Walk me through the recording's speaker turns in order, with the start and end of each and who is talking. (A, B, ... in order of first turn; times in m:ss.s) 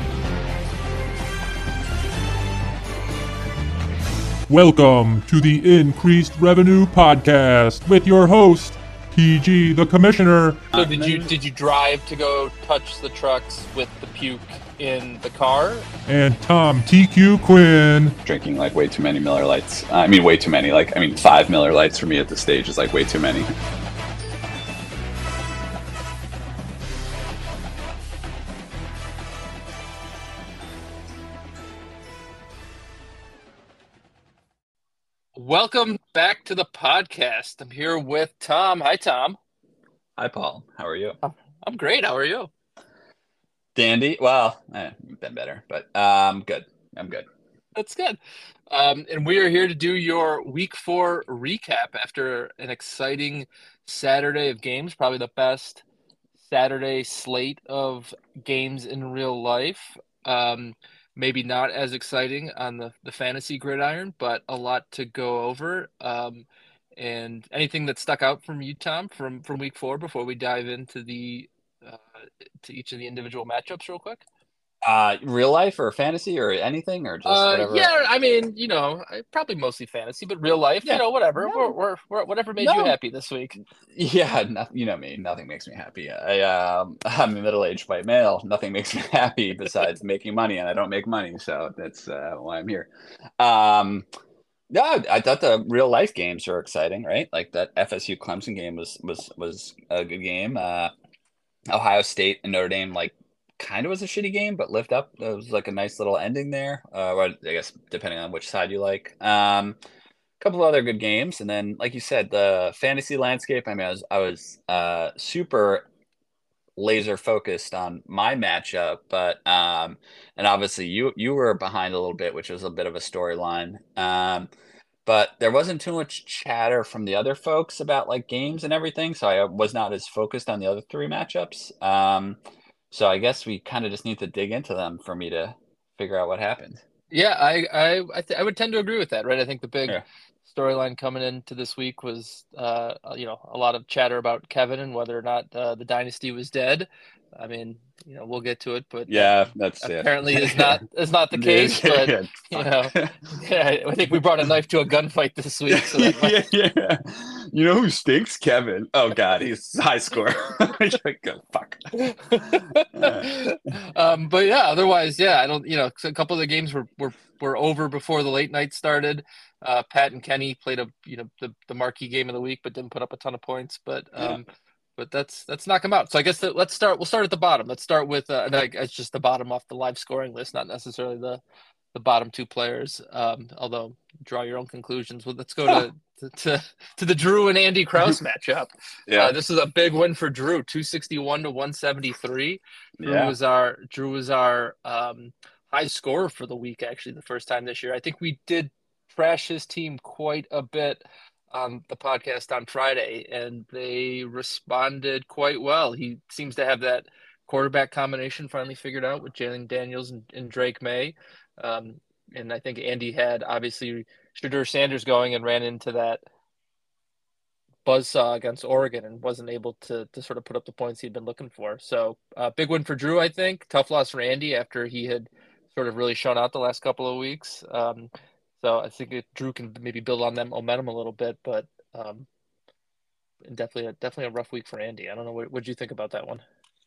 0:04.5-0:10.7 A
0:10.7-0:11.3 B
0:10.7-0:15.9 C
0:16.1-0:18.2 A
0:18.2-0:23.5 B
0:35.4-0:39.4 C
0:40.2-0:41.2 B
0:41.2-0:42.5 C
0:43.8-0:47.3 B
0:47.8-0:48.2 C
0:48.7-0:55.8 C
0:56.4-1:12.0 C
1:12.6-1:14.2 C
1:14.8-1:17.9 B
1:17.2-1:23.6 C
1:20.9-1:21.8 B
1:22.6-1:23.0 B
1:23.9-1:34.1 B
1:34.7-1:40.9 B
1:41.7-1:49.8 B
1:50.4-1:55.9 B
1:56.8-2:04.5 B
2:05.1-2:12.4 B
2:12.9-2:16.8 B
2:17.1-2:36.4 C
2:29.1-2:30.8 B
2:31.3-2:33.2 B
2:35.7-2:43.5 B
2:41.9-3:01.4 C
3:01.9-3:36.2 C
3:09.1-3:09.3 B
3:13.0-3:13.4 B
3:37.8-3:52.3 C
3:53.5-3:56.4 C